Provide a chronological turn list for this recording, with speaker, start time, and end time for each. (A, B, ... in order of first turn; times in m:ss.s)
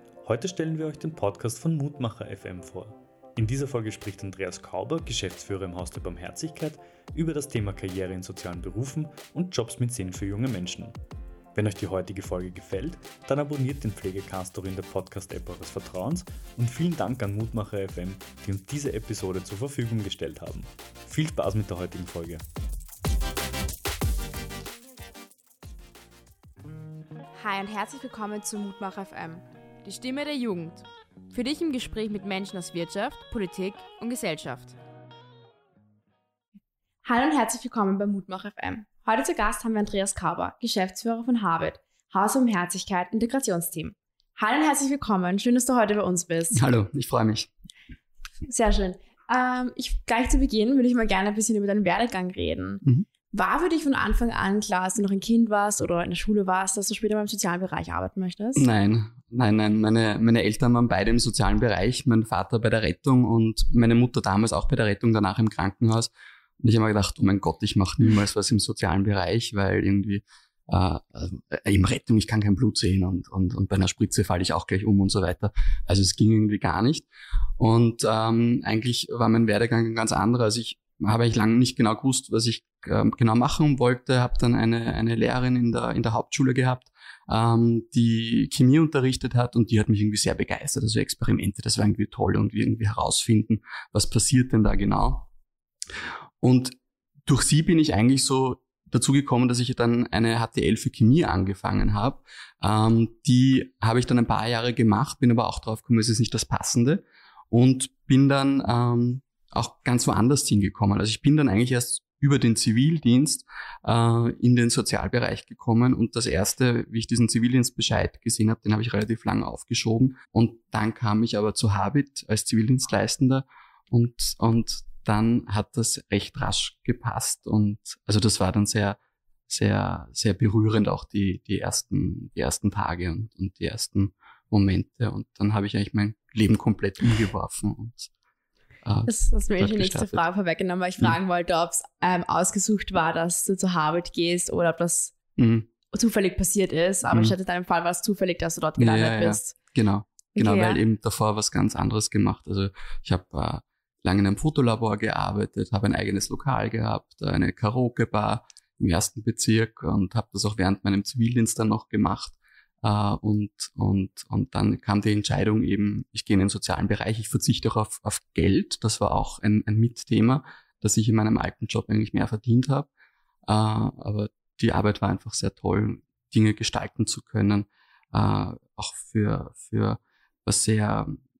0:00.2-0:11.0 A
0:11.6-0:22.4 A
0:27.4-0:34.8 B
0:37.0-0:46.6 B
0:46.6-0:47.5 C
0:48.5-0:58.6 B
0:58.6-1:17.1 C
1:17.6-1:35.3 C
1:36.4-2:09.0 C
2:09.5-2:18.1 C
2:18.8-2:20.2 C
2:19.1-2:25.2 B
2:25.4-2:25.7 C
2:25.9-2:29.6 B
2:27.1-2:27.3 C
2:28.8-2:52.9 C
2:30.4-2:30.8 B
2:53.5-3:01.2 C